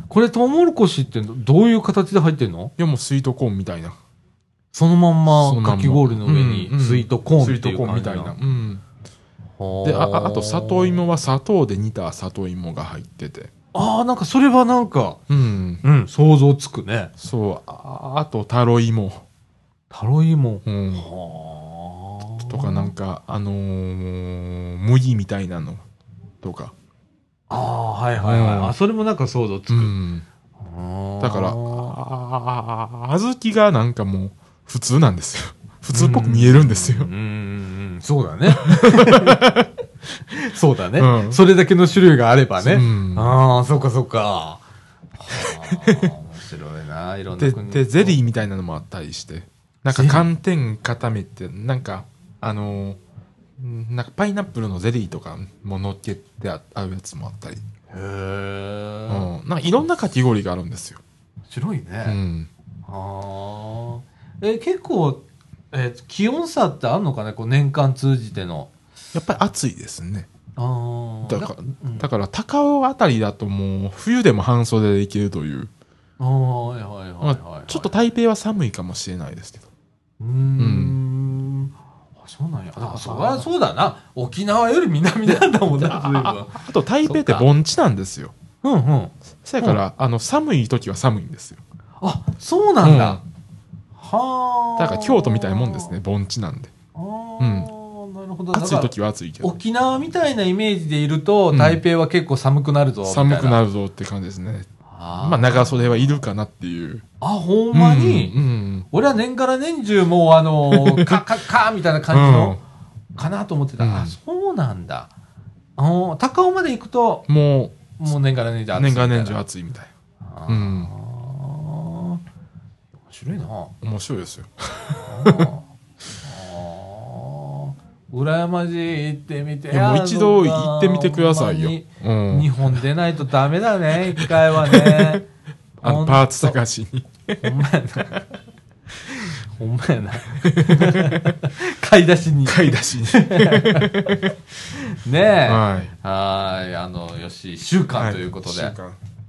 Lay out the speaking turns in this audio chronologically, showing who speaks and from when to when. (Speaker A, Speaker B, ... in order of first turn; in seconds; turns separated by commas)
Speaker A: 0.1-2.7, Speaker B: 2.8-4.0, Speaker A: 4.7-8.4, Speaker B: 5.3-8.8, Speaker A: 9.6-11.0, Speaker B: 9.8-13.5, Speaker A: 13.7-15.2, Speaker B: 15.3-15.8, Speaker A: 15.8-17.1, Speaker B: 17.2-19.2, Speaker A: 19.9-22.9, Speaker B: 20.6-21.1, Speaker B: 22.4-25.8, Speaker B: 26.4-26.7, Speaker A: 27.5-29.9, Speaker B: 28.2-28.7, Speaker B: 29.7-30.2, Speaker A: 30.6-31.9, Speaker B: 31.2-37.1, Speaker A: 35.9-39.4, Speaker B: 38.5-39.7, Speaker A: 40.3-44.6, Speaker B: 41.0-41.4, Speaker B: 42.6-43.3, Speaker A: 45.2-48.2, Speaker B: 45.3-46.1, Speaker B: 47.4-53.0, Speaker A: 49.9-50.3, Speaker B: 53.6-57.6, Speaker A: 57.9-59.3, Speaker B: 59.1-61.0, Speaker A: 61.5-62.2, Speaker B: 62.0-62.5, Speaker A: 62.9-68.7, Speaker B: 69.1-70.3, Speaker A: 70.6-72.1, Speaker B: 71.3-75.7, Speaker A: 76.2-77.9, Speaker B: 77.2-79.7, Speaker A: 80.2-87.5, Speaker B: 80.6-81.0, Speaker B: 82.8-83.5, Speaker B: 85.3-88.3, Speaker A: 88.6-89.8, Speaker B: 89.4-91.6, Speaker A: 92.0-93.2, Speaker B: 92.8-93.2, Speaker A: 94.0-96.0, Speaker B: 94.8-96.7, Speaker A: 97.0-103.6, Speaker B: 97.4-97.7, Speaker B: 98.5-99.5, Speaker B: 101.5-101.8, Speaker B: 103.0-104.7, Speaker A: 104.9-106.2, Speaker B: 105.2-107.0, Speaker A: 107.2-108.4, Speaker B: 107.7-108.9, Speaker A: 108.9-112.6, Speaker B: 110.7-111.2, Speaker B: 112.1-112.6, Speaker A: 113.2-115.1, Speaker B: 113.8-114.2, Speaker A: 115.8-117.3, Speaker B: 117.3-118.0, Speaker A: 118.0-119.4, Speaker B: 118.7-119.9, Speaker A: 120.2-122.2, Speaker B: 120.5-120.9, Speaker A: 123.1-123.7, Speaker B: 123.8-125.5, Speaker A: 125.0-125.7, Speaker A: 126.2-135.2, Speaker B: 129.7-132.8, Speaker B: 134.2-135.2, Speaker A: 135.8-136.6, Speaker B: 135.8-137.5, Speaker A: 137.4-138.2, Speaker A: 139.1-144.2, Speaker B: 140.4-141.3, Speaker B: 142.4-144.3, Speaker A: 144.8-148.8, Speaker B: 145.5-145.9, Speaker B: 147.9-149.0